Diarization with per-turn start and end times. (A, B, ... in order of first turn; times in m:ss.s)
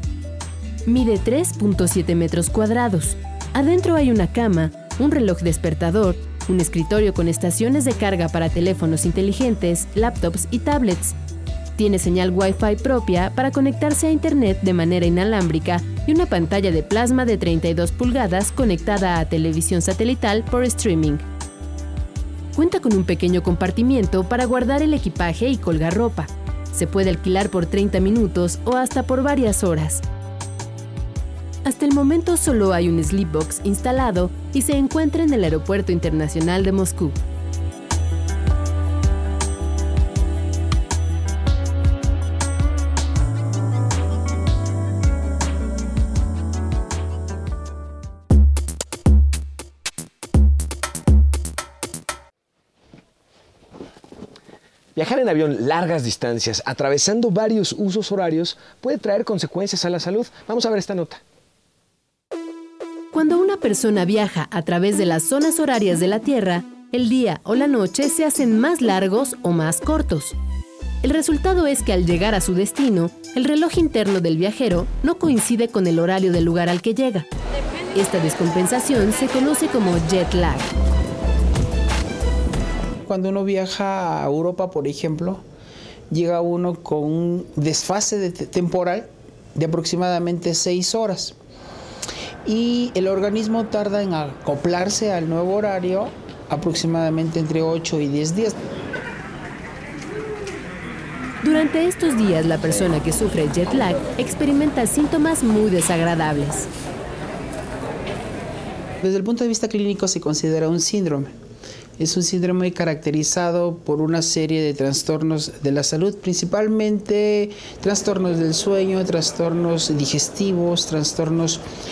0:00.9-0:11.2 A
0:11.8-0:21.2 A
0:22.5-0:30.0 A
0:31.6-0:37.2 A
0:55.0-1:01.2 B
1:03.1-1:10.4 A
1:11.0-1:17.3 A
1:18.0-1:20.7 A
1:23.1-1:25.4 C
1:26.1-1:31.4 C
1:32.4-1:38.6 C
1:41.4-1:46.7 A
1:49.0-1:51.4 C
1:52.0-2:01.6 C